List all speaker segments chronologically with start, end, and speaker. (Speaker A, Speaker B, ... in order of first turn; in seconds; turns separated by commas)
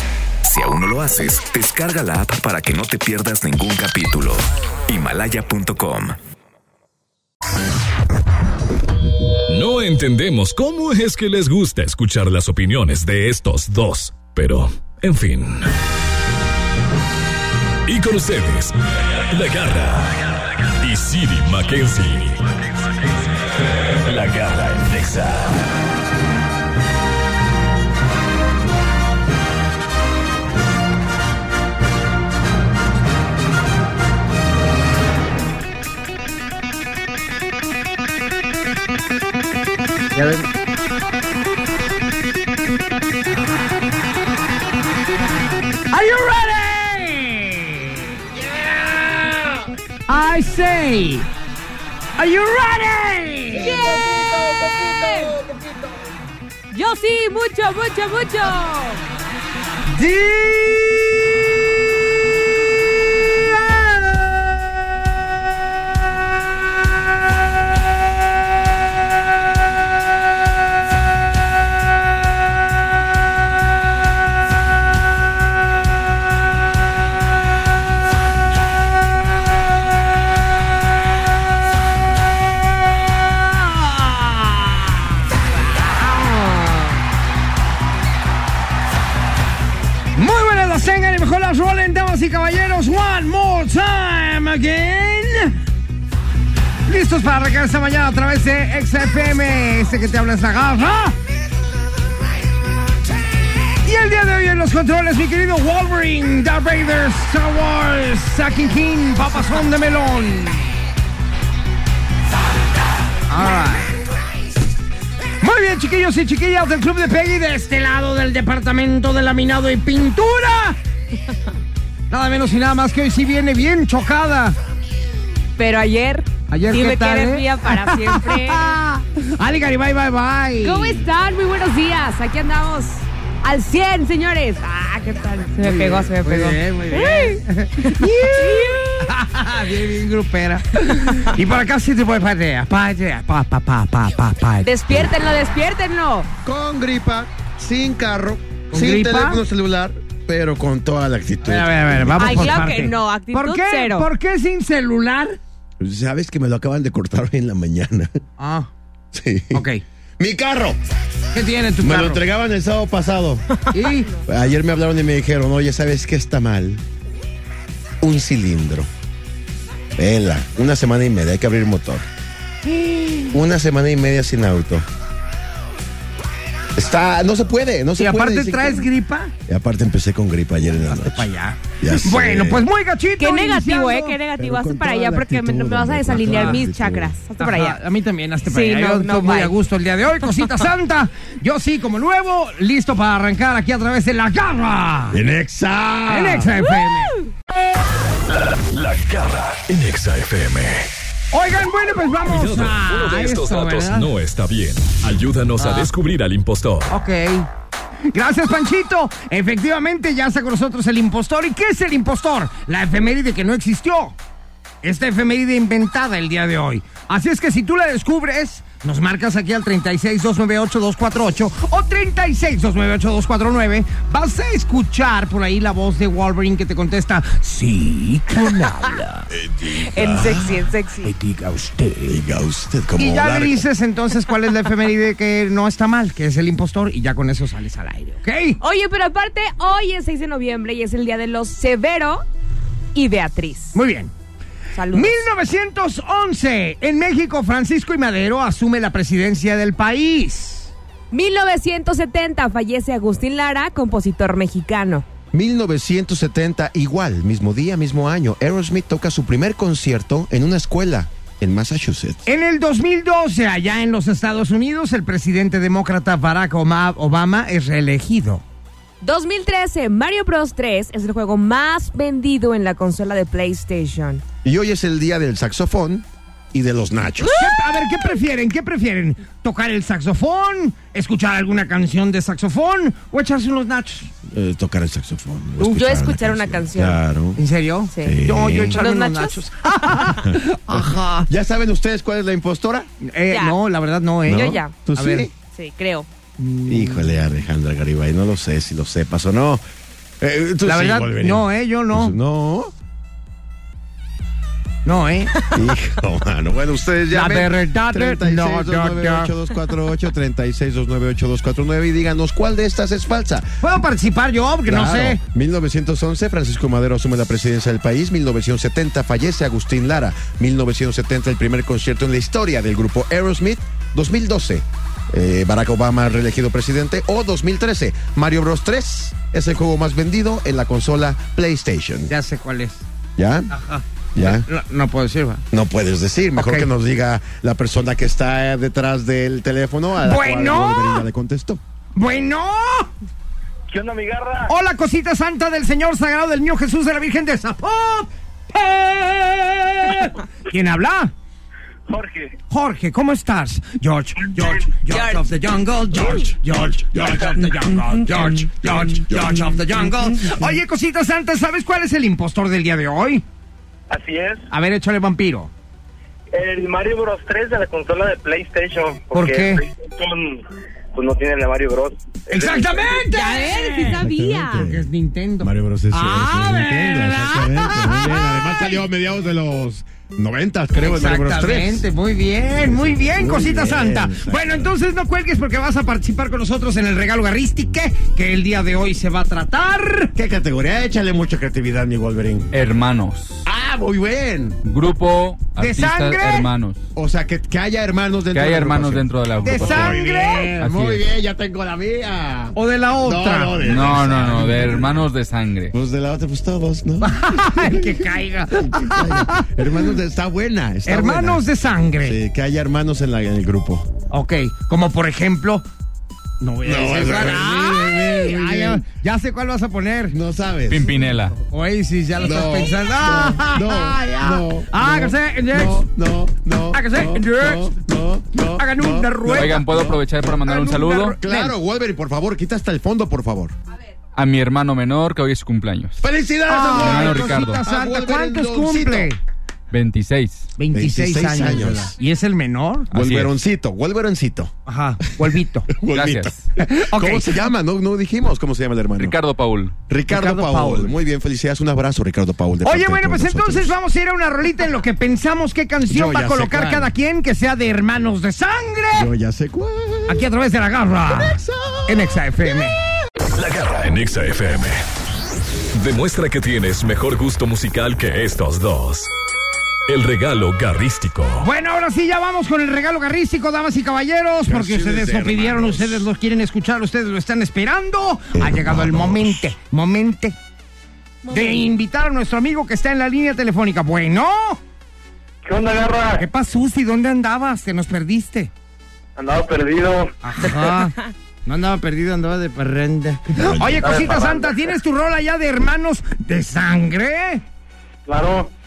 Speaker A: 0.4-6.2, Speaker B: 9.5-15.7, Speaker B: 17.9-22.6, Speaker B: 23.6-25.6, Speaker C: 40.1-40.5, Speaker C: 45.9-49.5, Speaker C: 50.1-51.3, Speaker C: 52.2-53.8, Speaker D: 53.5-55.4, Speaker E: 53.9-54.7, Speaker D: 56.7-59.0, Speaker C: 59.9-61.2, Speaker C: 63.6-64.1, Speaker D: 85.5-87.0, Speaker C: 90.2-95.6, Speaker C: 96.9-101.2, Speaker C: 103.8-110.8, Speaker C: 113.3-113.9, Speaker C: 115.4-120.8, Speaker C: 122.1-124.6, Speaker D: 125.6-128.7, Speaker C: 126.5-131.0, Speaker D: 130.6-139.1, Speaker C: 135.6-144.7, Speaker D: 144.6-146.3, Speaker E: 146.4-152.8, Speaker C: 148.7-149.4, Speaker C: 151.4-155.4, Speaker D: 152.2-154.1, Speaker E: 155.8-158.2, Speaker C: 158.4-158.7, Speaker E: 159.1-159.7, Speaker C: 159.5-159.8, Speaker E: 160.2-160.8, Speaker C: 161.3-162.2, Speaker E: 161.8-163.5, Speaker C: 163.7-164.1, Speaker E: 164.2-166.8, Speaker E: 168.0-168.9, Speaker E: 170.0-172.1, Speaker C: 172.7-173.4, Speaker E: 173.3-174.9, Speaker E: 176.8-178.9, Speaker C: 178.0-179.3, Speaker E: 179.5-182.7, Speaker C: 180.9-184.2, Speaker D: 183.2-187.8, Speaker E: 184.4-187.1, Speaker C: 186.2-186.6, Speaker C: 187.4-195.2, Speaker D: 188.5-189.6, Speaker E: 195.1-196.6, Speaker C: 196.1-197.2, Speaker B: 198.3-200.9, Speaker C: 201.3-204.1, Speaker B: 202.2-206.9, Speaker C: 205.6-205.9, Speaker C: 206.9-207.5, Speaker C: 208.1-214.2, Speaker C: 214.8-229.3, Speaker E: 229.3-230.7, Speaker D: 229.8-231.1, Speaker C: 231.0-232.2, Speaker E: 232.1-233.7, Speaker C: 233.0-238.6, Speaker D: 238.6-242.2, Speaker D: 242.9-243.8, Speaker C: 243.7-244.1, Speaker D: 244.7-245.2, Speaker C: 244.9-250.7, Speaker D: 251.1-255.1, Speaker E: 255.3-262.2, Speaker C: 262.2-268.4, Speaker D: 269.0-274.2, Speaker E: 274.4-277.5, Speaker C: 277.2-284.1, Speaker E: 284.3-287.4, Speaker D: 285.6-287.0, Speaker C: 287.4-291.3, Speaker D: 287.9-290.1, Speaker E: 288.0-288.8, Speaker E: 290.2-292.9, Speaker C: 293.0-295.3, Speaker D: 293.3-293.6, Speaker E: 294.3-295.3, Speaker D: 294.3-294.8, Speaker D: 295.5-296.1, Speaker C: 296.4-297.1, Speaker E: 296.7-299.6, Speaker E: 300.2-302.7, Speaker C: 300.6-302.2, Speaker C: 304.9-305.3, Speaker E: 305.5-313.6, Speaker C: 307.1-309.3, Speaker C: 313.6-315.2, Speaker E: 314.7-332.1, Speaker C: 332.1-332.8, Speaker E: 333.2-333.5, Speaker C: 333.5-335.4, Speaker E: 334.1-334.5, Speaker E: 335.5-341.6, Speaker C: 336.4-336.7, Speaker C: 340.0-341.1, Speaker C: 341.9-342.9, Speaker F: 343.7-344.5, Speaker C: 344.5-351.1, Speaker F: 351.9-352.3, Speaker C: 352.5-363.2, Speaker D: 354.9-355.3, Speaker E: 355.9-356.4, Speaker E: 358.6-359.8, Speaker F: 363.9-364.4, Speaker C: 364.5-365.5, Speaker F: 366.3-373.0, Speaker C: 369.1-369.6, Speaker C: 372.3-378.4, Speaker D: 373.1-374.7, Speaker E: 373.9-374.9, Speaker E: 375.4-381.9, Speaker D: 377.9-378.6, Speaker C: 380.8-390.1, Speaker E: 382.6-384.7, Speaker E: 390.1-392.5, Speaker G: 392.5-393.4, Speaker E: 393.5-394.6, Speaker G: 394.6-396.8, Speaker C: 395.6-396.5, Speaker E: 396.9-405.1, Speaker G: 398.3-400.0, Speaker C: 399.4-400.6, Speaker G: 400.6-401.0, Speaker C: 402.6-403.6, Speaker G: 403.6-405.7, Speaker E: 405.7-411.5, Speaker C: 407.0-409.8, Speaker C: 410.9-412.2, Speaker E: 412.0-413.9, Speaker C: 414.1-415.6, Speaker C: 416.4-420.2, Speaker E: 416.6-418.8, Speaker E: 420.1-421.1, Speaker G: 420.7-421.4, Speaker C: 421.4-425.9, Speaker E: 422.2-433.6, Speaker C: 426.7-427.7, Speaker C: 428.6-430.0, Speaker G: 429.3-431.2, Speaker C: 430.5-431.6, Speaker G: 434.2-436.0, Speaker E: 436.0-439.1, Speaker C: 436.5-439.2, Speaker G: 436.8-437.6, Speaker G: 439.7-440.5, Speaker C: 440.6-442.9, Speaker E: 440.7-441.9, Speaker G: 442.9-443.3, Speaker E: 442.9-444.6, Speaker C: 444.7-445.7, Speaker E: 445.2-449.2, Speaker G: 445.9-446.4, Speaker C: 446.9-447.4, Speaker G: 449.0-449.7, Speaker E: 449.9-453.8, Speaker C: 450.1-450.9, Speaker C: 452.6-459.1, Speaker E: 455.9-456.9, Speaker E: 458.9-460.3, Speaker C: 460.1-462.8, Speaker E: 461.1-462.7, Speaker B: 463.4-464.8, Speaker B: 465.7-469.1, Speaker B: 469.9-471.5, Speaker C: 471.4-480.4, Speaker E: 474.4-476.1, Speaker E: 478.3-479.5, Speaker D: 481.2-481.7, Speaker C: 481.3-484.6, Speaker F: 485.4-486.2, Speaker C: 486.2-488.5, Speaker F: 489.2-490.1, Speaker C: 490.2-497.4, Speaker D: 490.8-491.1, Speaker E: 493.6-494.1, Speaker F: 493.9-494.6, Speaker F: 498.1-498.5